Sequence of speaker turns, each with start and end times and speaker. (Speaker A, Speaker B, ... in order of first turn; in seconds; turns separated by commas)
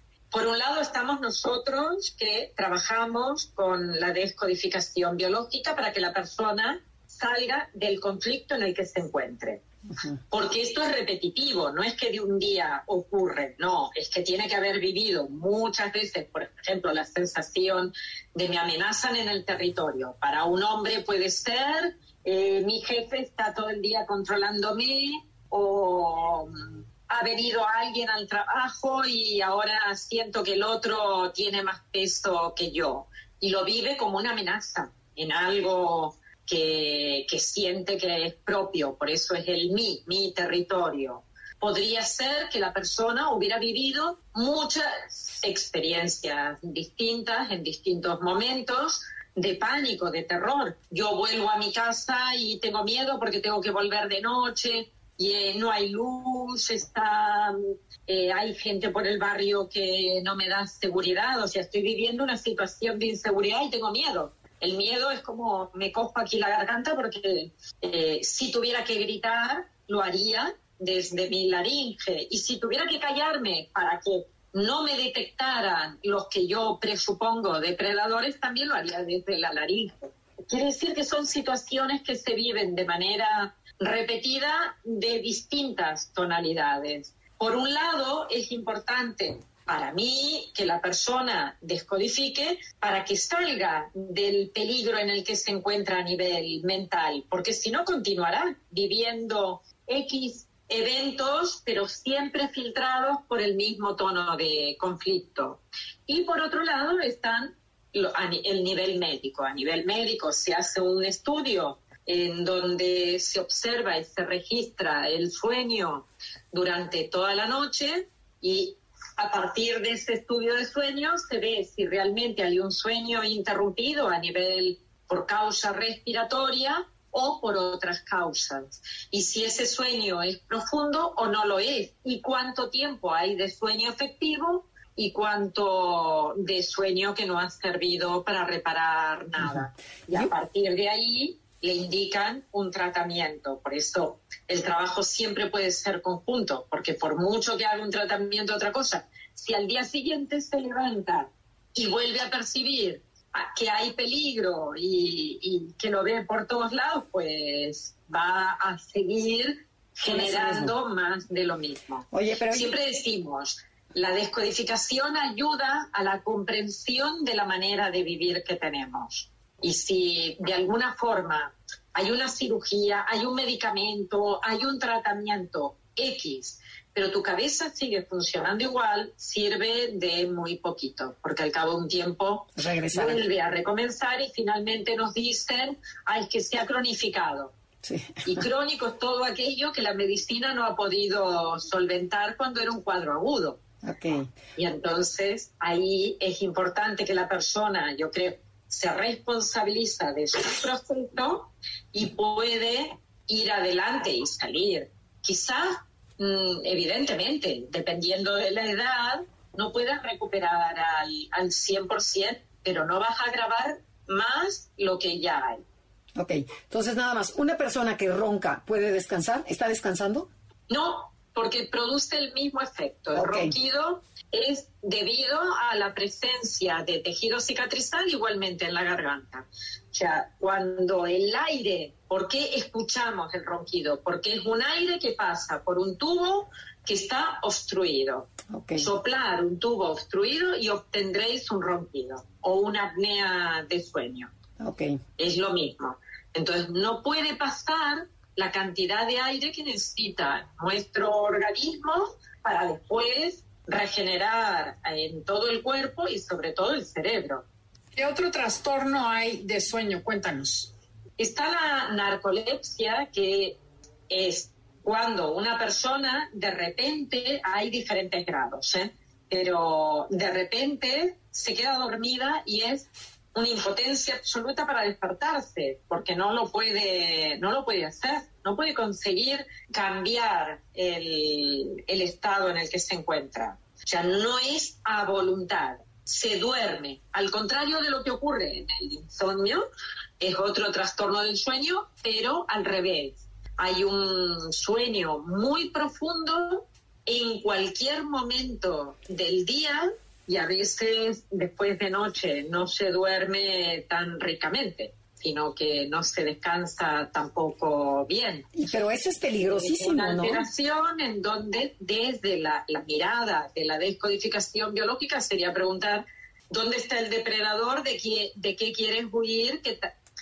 Speaker A: 0.3-9.6, Speaker A: 10.3-187.5, Speaker B: 160.1-160.7, Speaker B: 162.1-162.7, Speaker B: 182.6-183.2, Speaker B: 187.8-188.4, Speaker A: 188.2-193.6, Speaker B: 193.8-194.3, Speaker A: 194.6-215.6, Speaker B: 216.1-220.3, Speaker A: 220.7-244.3, Speaker B: 223.1-223.5, Speaker B: 238.5-238.9, Speaker B: 244.6-245.0, Speaker A: 245.2-257.4, Speaker C: 257.9-260.7, Speaker A: 261.2-289.6, Speaker A: 290.2-308.5, Speaker B: 308.5-310.4, Speaker A: 309.4-319.9